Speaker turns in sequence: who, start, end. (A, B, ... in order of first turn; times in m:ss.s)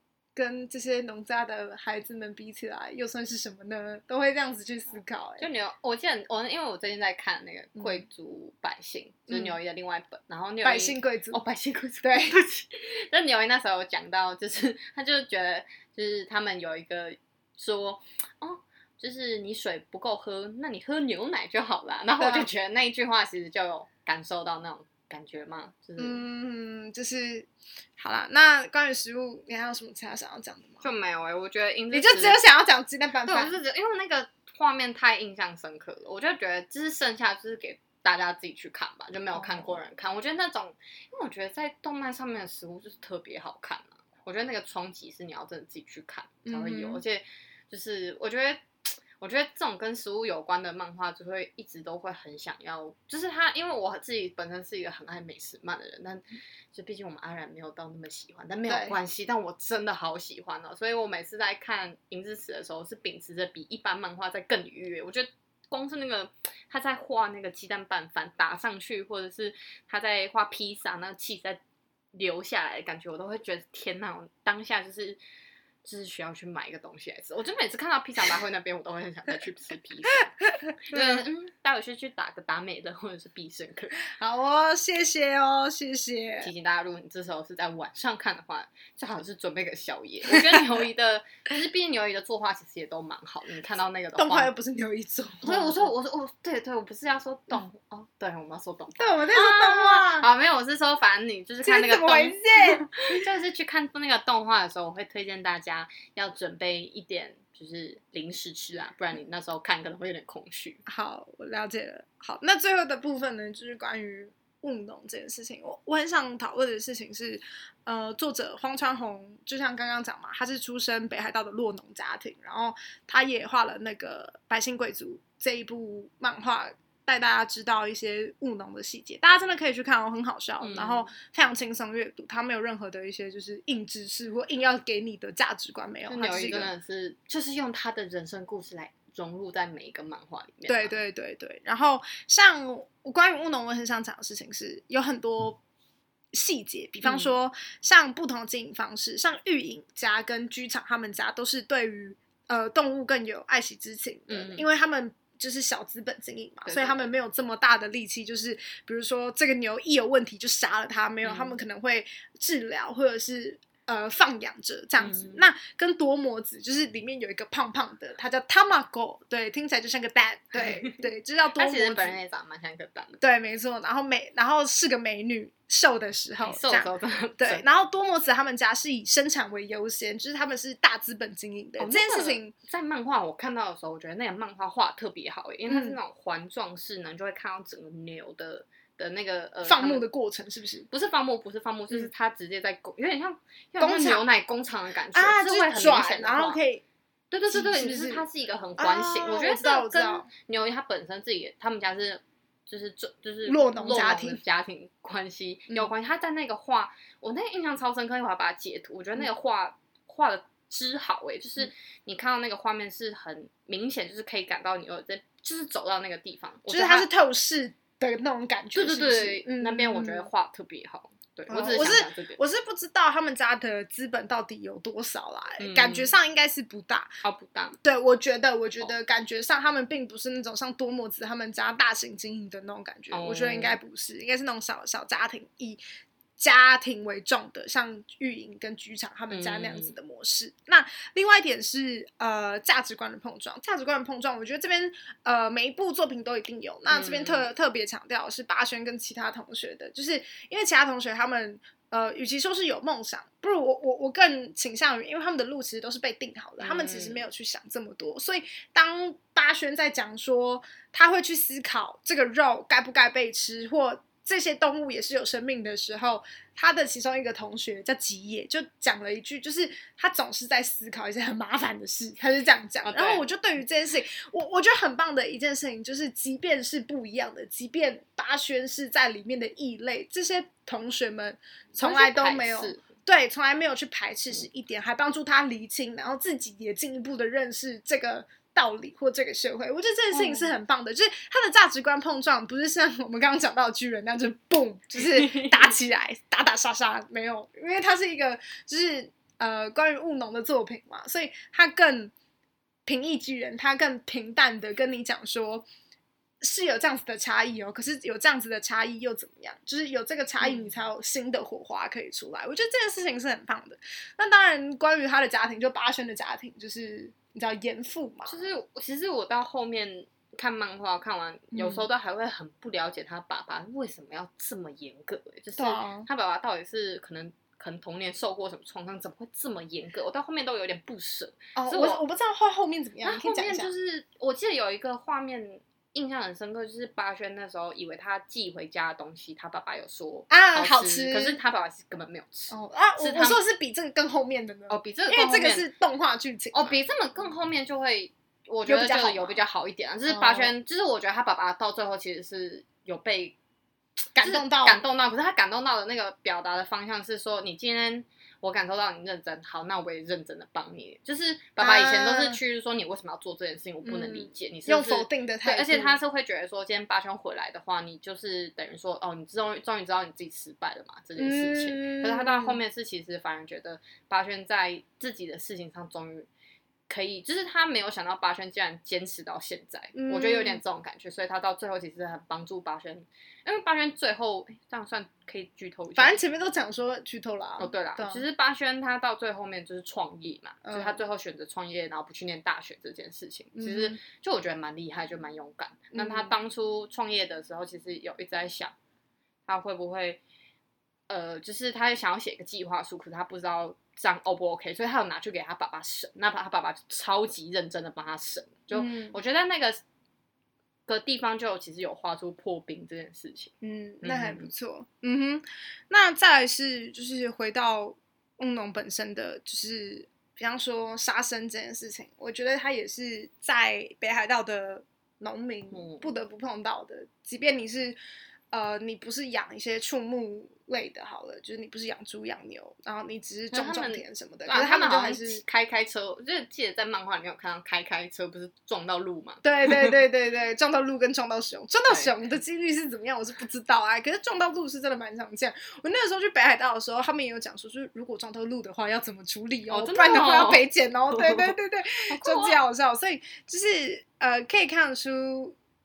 0:00.4-0:05.5 A
0:05.4-0:26.2 B
0:07.8-0:08.0 A
0:09.3-0:09.6 A
0:10.6-0:11.4 A
0:12.0-0:12.4 A
0:22.2-0:22.5 A
0:26.0-0:30.9 A
0:30.8-0:32.4 B
0:31.9-0:33.5 A
0:33.2-1:11.6 B
0:39.3-0:39.8 A
0:46.5-0:47.0 A
0:58.7-0:59.0 A
1:12.2-1:15.2 B
1:15.8-1:24.0 B
1:20.5-1:21.2 A
1:24.0-1:26.5 A
1:26.4-1:34.5 B
1:30.3-1:30.6 A
1:34.2-1:35.9 A
1:35.4-1:50.8 B
1:39.0-1:40.3 A
1:41.6-1:43.2 A
1:50.9-2:16.7 A
2:10.6-2:11.1 B
2:16.1-2:21.0 B
2:20.7-2:25.6 A
2:26.3-2:52.2 A
2:27.0-2:27.3 B
2:34.3-2:34.6 B
2:36.7-2:37.1 B
2:41.2-2:41.6 B
2:45.0-2:45.4 B
2:50.6-2:51.0 B
2:51.6-2:53.2 B
2:53.2-3:02.5 A
2:56.4-2:57.6 B
3:01.8-3:10.1 B
3:05.7-3:06.0 A
3:09.6-3:10.9 A
3:10.9-3:16.6 B
3:13.8-3:14.2 A
3:15.1-3:16.8 A
3:17.3-3:37.1 B
3:17.5-3:18.2 A
3:18.8-3:20.3 A
3:23.5-3:24.4 A
3:36.7-3:40.3 A
3:38.8-3:42.4 B
3:41.5-3:47.1 A
3:45.6-3:46.1 B
3:47.2-3:47.8 B
3:47.8-3:55.8 A
3:53.1-3:53.8 B
3:56.4-5:02.1 A
3:59.3-3:59.9 B
4:06.9-4:07.4 B
4:16.6-4:17.2 B
4:32.8-4:33.3 B
4:41.8-4:42.9 B
4:50.1-4:50.5 B
4:55.0-4:55.7 B
5:02.9-5:05.7 A
5:06.4-5:18.4 A
5:10.4-5:10.7 B
5:18.3-5:32.0 B
5:21.5-5:21.9 A
5:25.6-5:26.1 A
5:31.6-5:33.7 A
5:33.0-5:43.4 B
5:40.3-5:41.4 A
5:42.5-5:46.8 A
5:44.7-5:45.7 B
5:46.5-5:53.4 B
5:48.7-5:49.4 A
5:50.1-5:50.5 A
5:54.2-5:54.8 A
5:54.2-6:16.3 B
6:01.6-6:02.4 A
6:03.8-6:06.0 A
6:11.2-6:12.6 A
6:16.9-6:26.2 B
6:19.9-6:20.6 A
6:26.0-6:28.2 A
6:27.6-6:38.7 B
6:30.6-6:31.0 A
6:33.6-6:34.0 A
6:36.0-6:36.3 A
6:39.5-6:40.2 B
6:41.1-6:49.8 B
6:48.7-6:49.2 A
6:50.9-6:54.5 B
6:53.6-7:08.0 A
7:05.7-7:06.1 B
7:08.5-7:15.4 A
7:13.5-7:19.9 B
7:19.4-7:35.6 A
7:29.7-7:31.6 B
7:32.1-7:32.6 B